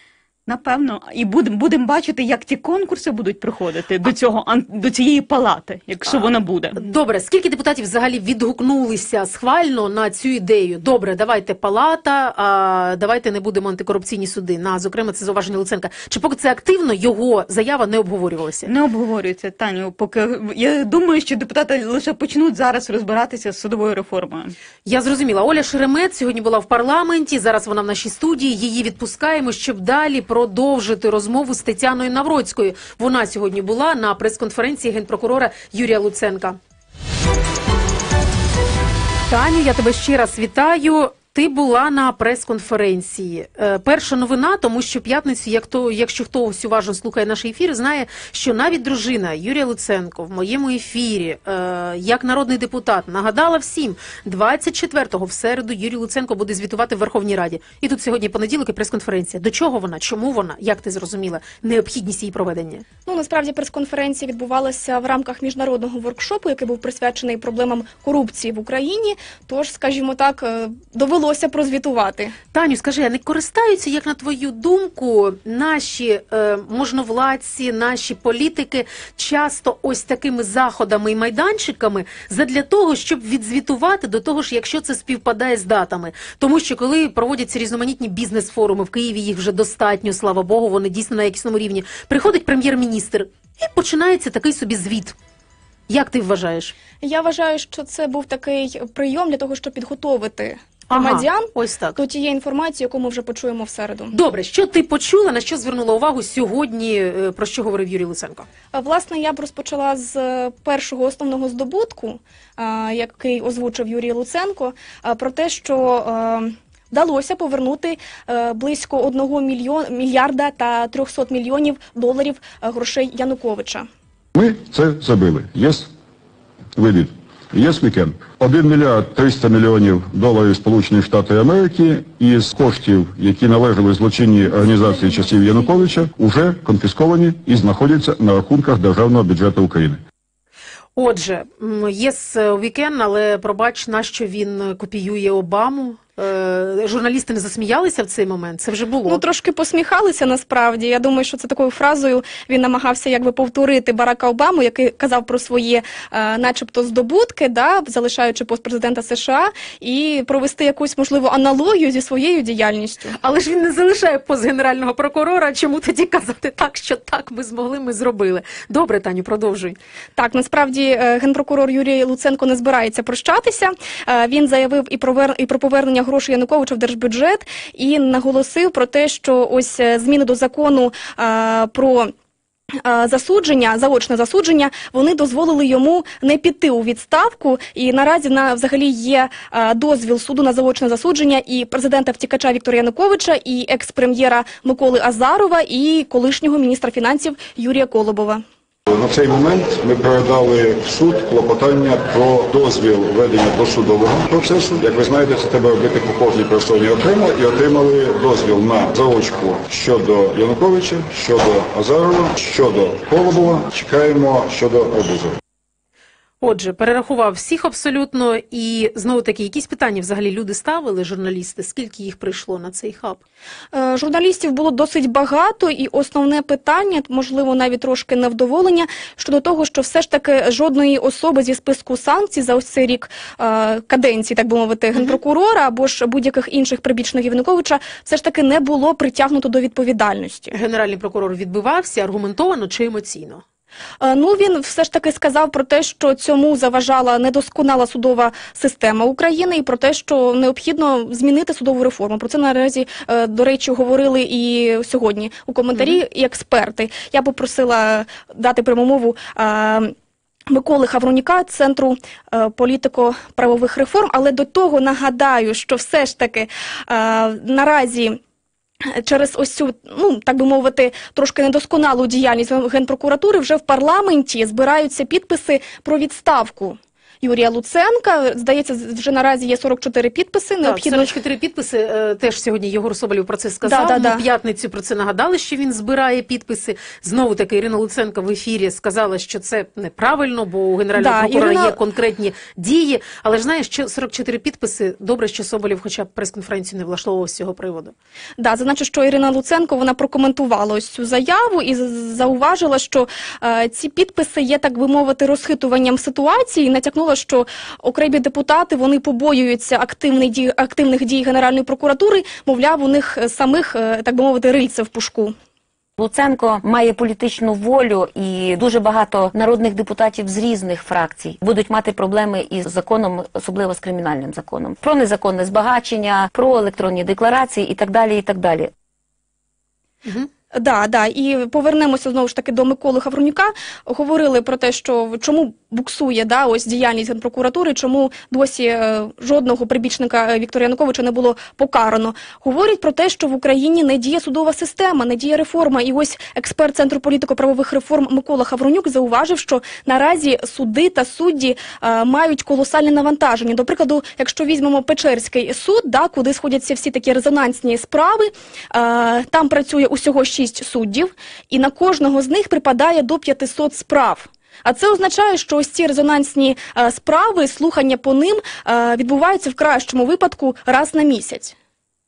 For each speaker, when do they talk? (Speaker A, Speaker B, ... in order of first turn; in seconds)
Speaker A: 0.5-6.8, 18.6-24.6
Speaker B: 6.8-18.7, 24.9-36.6, 39.3-62.8, 72.5-95.1, 95.9-96.7, 100.9-102.0, 104.1-108.5, 140.9-149.2, 163.2-169.8, 216.4-223.2, 240.5-243.4, 280.6-297.9
Speaker C: 63.0-72.3, 97.0-104.2, 108.7-123.9, 134.5-136.0, 149.1-163.2, 170.2-182.1, 182.8-198.4, 223.7-240.6, 244.0-259.9, 260.5-268.2, 268.9-281.1, 283.6-284.2, 290.9-291.8, 298.4-315.3, 330.5-371.5
Speaker D: 124.3-125.9, 126.8-140.0, 198.9-215.4
Speaker E: 316.0-328.7